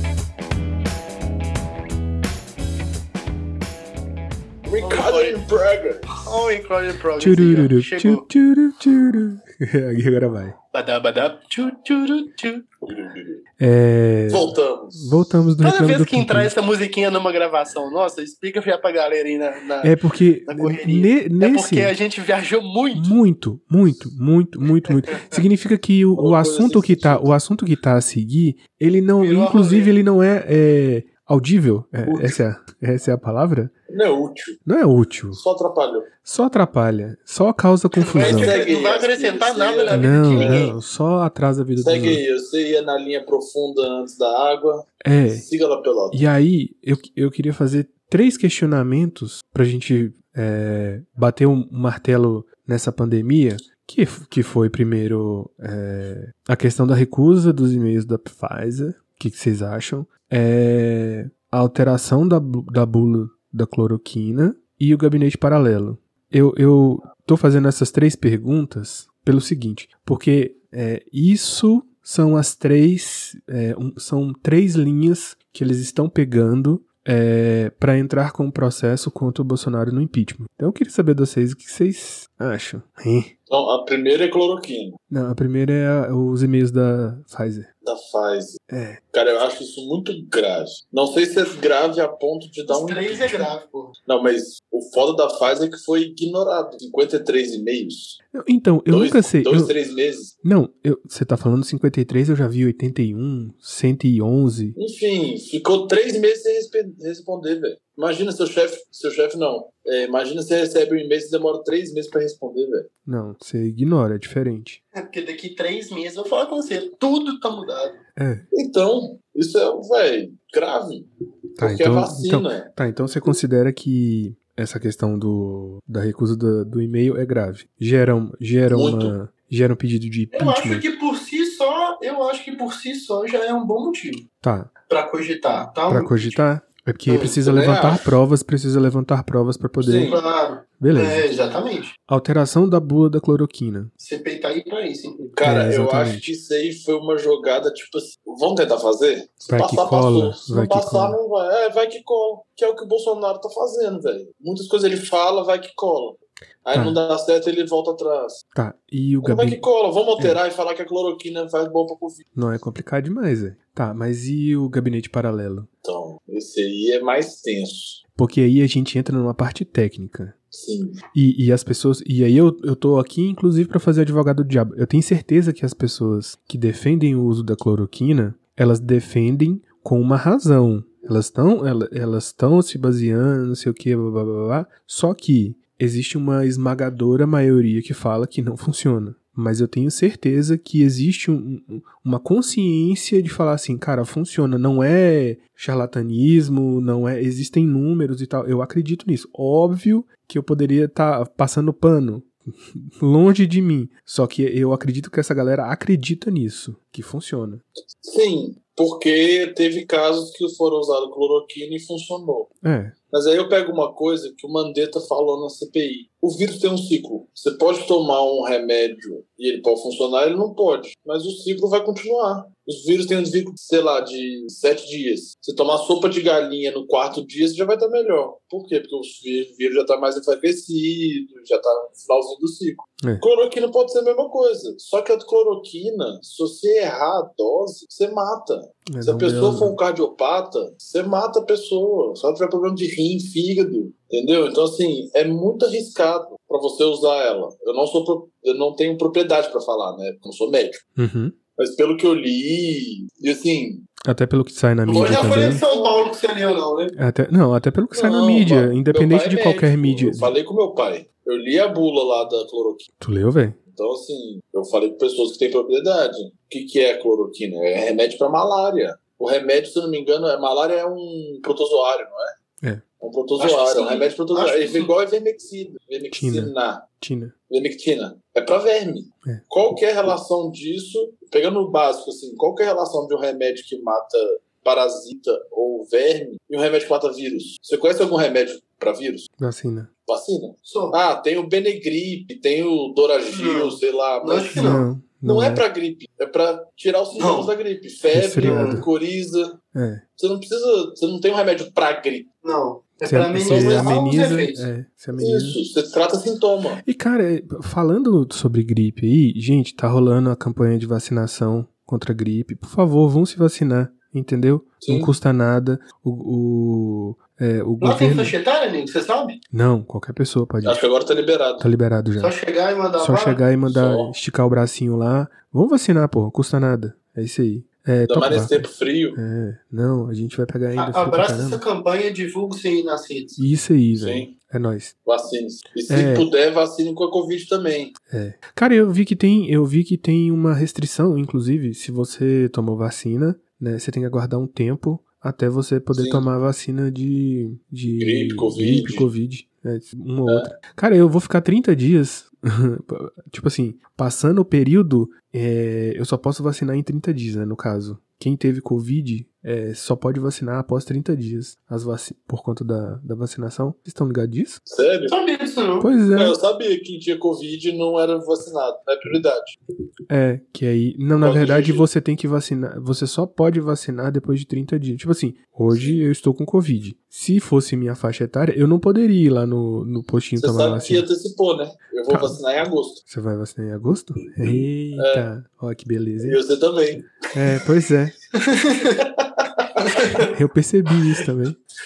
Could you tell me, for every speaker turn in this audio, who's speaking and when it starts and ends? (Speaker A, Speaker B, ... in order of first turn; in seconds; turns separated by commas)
Speaker A: 4.6-6.1, Speaker B: 4.8-5.4, Speaker B: 6.2-8.2, Speaker C: 7.2-10.6, Speaker B: 10.7-12.7, Speaker A: 12.8-13.4, Speaker C: 13.6-16.5, Speaker A: 14.3-15.2, Speaker B: 15.6-19.9, Speaker C: 19.8-21.9, Speaker B: 20.5-23.1, Speaker C: 22.9-33.7, Speaker B: 24.9-25.3, Speaker A: 26.1-27.3, Speaker B: 29.2-29.9, Speaker A: 32.0-32.4, Speaker A: 33.9-34.6, Speaker C: 34.6-35.4, Speaker A: 35.3-36.1, Speaker C: 36.2-38.5, Speaker B: 38.0-40.7, Speaker A: 38.2-40.7, Speaker C: 39.9-42.2, Speaker A: 41.8-46.2, Speaker C: 45.0-45.4, Speaker C: 46.1-83.3, Speaker A: 83.5-85.0, Speaker C: 85.1-87.7, Speaker A: 87.8-88.6, Speaker C: 88.7-89.0, Speaker A: 89.1-93.5, Speaker B: 92.7-93.9, Speaker A: 94.0-98.2, Speaker C: 98.3-99.7, Speaker A: 98.9-100.3, Speaker C: 100.4-104.7, Speaker A: 104.7-112.9, Speaker C: 113.0-114.8, Speaker B: 115.0-118.0, Speaker C: 118.2-118.4, Speaker A: 118.5-121.1, Speaker C: 121.6-130.8, Speaker A: 121.6-122.7, Speaker A: 128.7-129.1, Speaker B: 130.3-134.2, Speaker C: 134.4-134.7, Speaker B: 134.9-136.4, Speaker C: 135.9-140.1, Speaker B: 137.1-137.4, Speaker A: 137.4-138.1, Speaker A: 139.8-140.2, Speaker B: 140.0-141.9, Speaker C: 140.8-141.3, Speaker C: 142.1-143.9, Speaker B: 144.0-145.4, Speaker A: 145.3-158.4, Speaker C: 145.4-146.3, Speaker C: 149.5-151.2, Speaker C: 156.7-157.0, Speaker C: 158.5-159.6, Speaker A: 159.2-162.2, Speaker C: 162.3-165.7, Speaker A: 165.8-168.0, Speaker C: 168.1-170.3, Speaker A: 170.5-171.0, Speaker C: 171.1-207.6, Speaker A: 207.9-212.5, Speaker C: 212.6-212.9, Speaker A: 213.1-250.8, Speaker C: 238.9-239.8, Speaker C: 250.9-251.3, Speaker A: 251.6-253.9, Speaker C: 254.0-255.6, Speaker A: 254.9-256.0, Speaker B: 254.9-256.9, Speaker C: 256.9-260.3, Speaker A: 257.9-262.9, Speaker C: 263.0-263.6, Speaker A: 263.7-272.3, Speaker A: 273.0-276.8, Speaker B: 273.4-274.9, Speaker C: 276.1-277.3, Speaker A: 277.5-289.3, Speaker C: 289.4-289.9, Speaker A: 290.1-299.6, Speaker B: 290.6-291.0, Speaker B: 293.3-294.9, Speaker C: 294.5-295.6, Speaker B: 297.2-297.5, Speaker C: 298.1-298.9, Speaker B: 298.4-298.8, Speaker C: 299.7-300.0, Speaker A: 300.2-302.3, Speaker B: 302.4-304.7, Speaker C: 303.0-305.6, Speaker A: 303.5-303.9, Speaker A: 305.2-306.8, Speaker C: 306.8-318.3, Speaker A: 314.8-315.1, Speaker B: 317.8-319.4, Speaker C: 319.5-320.8, Speaker A: 320.6-321.7, Speaker C: 321.6-322.3, Speaker B: 322.2-323.4, Speaker C: 323.0-331.6, Speaker A: 323.6-324.1, Speaker A: 328.1-329.2, Speaker B: 330.7-333.4, Speaker C: 333.4-334.9, Speaker A: 333.9-334.3, Speaker A: 335.1-337.9, Speaker C: 335.9-336.3, Speaker C: 338.1-364.6, Speaker A: 345.9-346.2, Speaker A: 348.0-349.1, Speaker A: 364.7-365.1, Speaker B: 365.1-365.9, Speaker C: 365.8-366.4, Speaker A: 366.1-369.6, Speaker C: 370.1-381.1, Speaker A: 371.2-371.9, Speaker A: 375.7-376.0, Speaker A: 380.4-383.0, Speaker C: 382.1-382.4, Speaker C: 383.1-386.4, Speaker A: 384.4-385.3, Speaker A: 386.2-387.1, Speaker C: 387.3-388.1, Speaker B: 388.4-389.0, Speaker A: 388.9-390.2, Speaker B: 389.9-390.3, Speaker C: 390.3-391.6